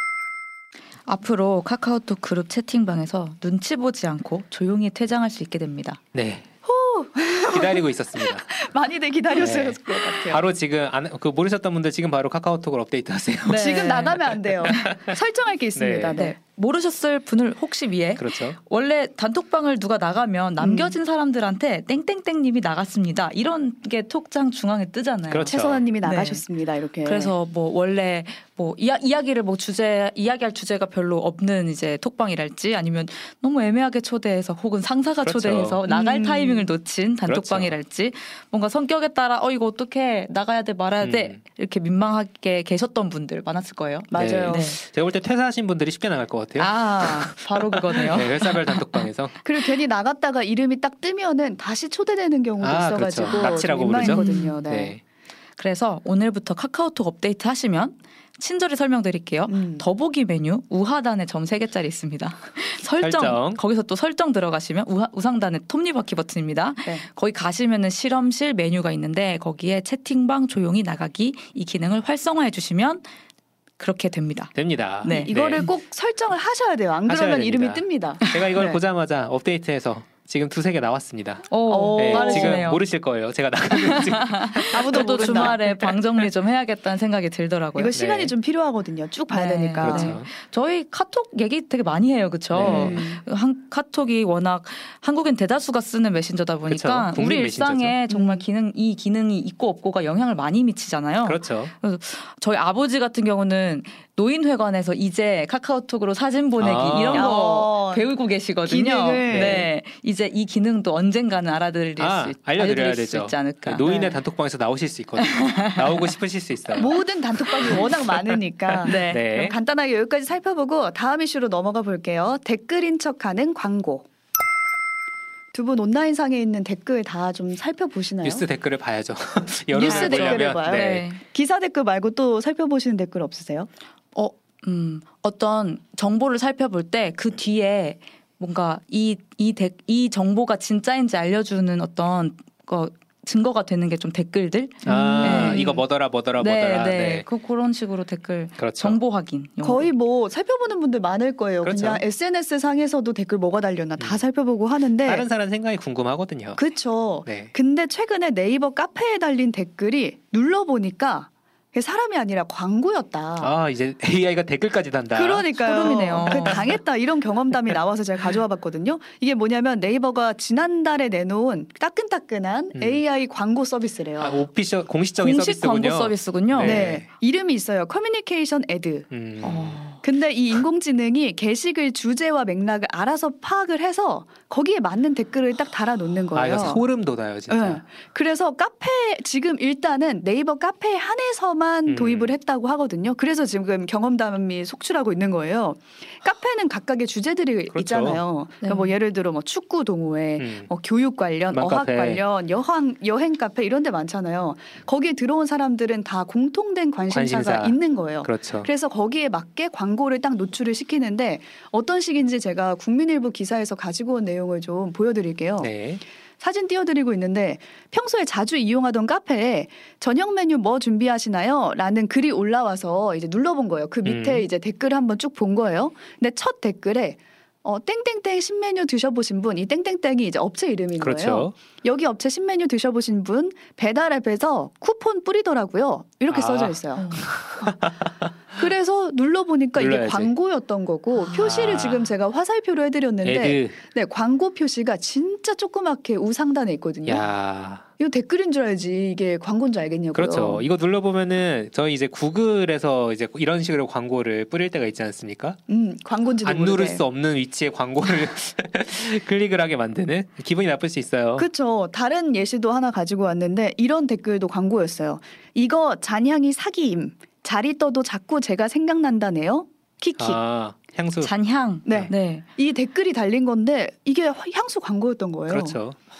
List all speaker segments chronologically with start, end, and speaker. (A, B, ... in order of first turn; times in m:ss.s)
0:01.1-0:06.0 A
0:06.1-0:06.4 B
0:06.6-0:10.4 C
0:07.5-0:08.5 B
0:09.4-0:15.2 B
0:13.4-0:14.2 A
0:13.5-0:16.4 C
0:15.7-0:16.2 B
0:16.1-0:26.4 A
0:18.2-0:18.6 B
0:20.6-0:21.0 C
0:25.3-0:25.8 B
0:25.4-0:27.3 C
0:27.0-0:44.8 A
0:35.2-0:35.8 B
0:35.9-0:36.7 C
0:37.2-0:37.7 B
0:41.0-0:41.4 B
0:44.1-0:44.7 C
0:44.1-0:47.4 B
0:46.6-0:49.1 A
0:47.9-0:49.4 B
0:49.4-0:55.0 C
0:52.6-0:55.0 B
0:53.3-0:54.6 A
0:55.6-1:13.1 A
0:59.5-0:59.9 C
1:03.0-1:03.6 B
1:13.8-1:15.6 A
1:14.5-1:15.7 B
1:15.1-1:18.8 C
1:17.0-1:25.8 B
1:21.5-1:22.8 A
1:21.7-1:22.7 C
1:23.7-1:27.9 A
1:24.6-1:25.6 C
1:27.8-1:30.2 C
1:27.9-1:28.3 B
1:29.3-1:54.1 A
1:29.8-1:30.3 B
1:32.5-1:33.0 B
1:32.6-1:33.2 C
1:36.7-1:38.0 B
1:38.1-1:38.4 C
1:41.2-1:41.7 B
1:46.6-1:47.3 B
1:47.1-1:48.1 C
1:48.6-1:49.7 C
1:49.3-1:49.7 B
1:52.0-1:56.9 B
1:55.2-1:56.1 A
1:56.7-2:04.1 C
1:57.7-1:58.2 B
1:58.8-1:59.3 A
1:58.8-1:59.6 B
2:05.5-2:08.4 C
2:08.2-2:11.1 B
2:09.7-2:13.7 C
2:09.8-2:11.2 A
2:14.1-2:25.8 A
2:24.8-2:25.6 C
2:24.8-2:27.2 B
2:26.4-2:29.9 A
2:28.6-2:29.0 B
2:29.6-2:35.2 C
2:31.6-2:32.0 B
2:35.0-2:36.6 B
2:36.6-2:43.5 C
2:37.2-2:37.5 B
2:43.4-2:45.5 B
2:45.1-2:54.4 C
2:45.6-2:46.7 A
2:46.3-2:46.6 B
2:52.7-2:53.0 B
2:54.2-2:57.0 B
2:55.2-2:56.9 A
2:56.6-2:59.1 C
2:59.1-2:59.8 B
2:59.4-3:00.0 A
3:00.0-3:06.8 C
3:06.3-3:07.8 B
3:07.5-3:35.7 C
3:11.9-3:12.3 B
3:17.7-3:18.2 B
3:18.6-3:18.9 A
3:20.4-3:20.7 B
3:21.5-3:22.2 B
3:27.1-3:28.7 B
3:35.6-3:36.0 B
3:36.4-3:57.9 C
3:44.0-3:44.4 B
3:51.0-3:51.5 B
3:56.3-3:58.1 B
3:56.9-3:57.3 A
3:58.5-4:07.2 C
3:59.8-4:00.3 B
4:01.2-4:02.1 B
4:03.2-4:03.8 B
4:07.0-4:07.8 B
4:08.0-4:10.6 C
4:10.1-4:15.6 B
4:15.7-4:17.0 C
4:16.4-4:21.5 B
4:21.4-4:30.4 C
4:30.2-4:31.3 B
4:31.2-4:32.4 A
4:31.8-4:35.8 C
4:31.9-4:32.1 B
4:35.5-4:36.0 B